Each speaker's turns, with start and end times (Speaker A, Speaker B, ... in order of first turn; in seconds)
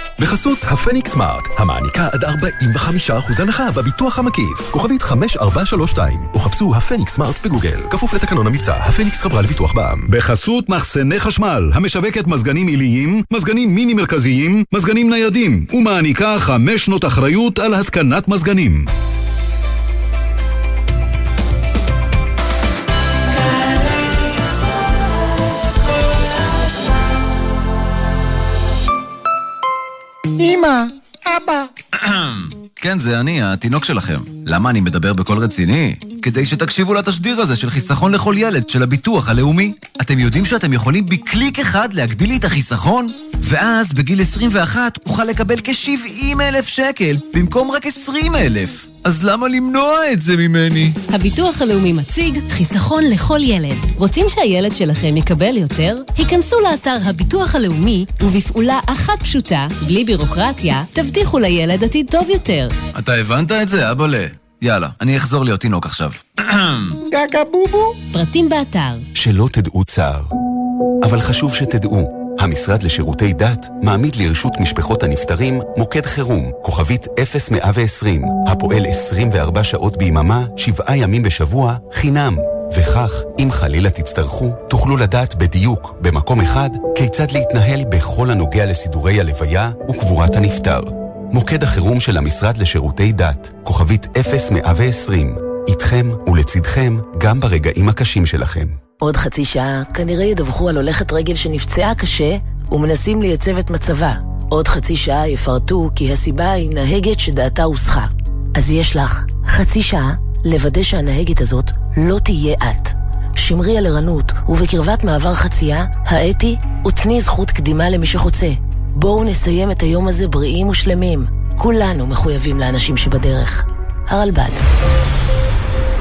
Speaker A: 0.2-10.1
Speaker B: 10.1-18.9
Speaker C: 32.0-51.0, 62.9-67.0
Speaker D: 51.1-62.7, 68.1-69.0
Speaker E: 67.2-68.0, 99.0-124.6
Speaker F: 69.1-70.3, 71.0-98.8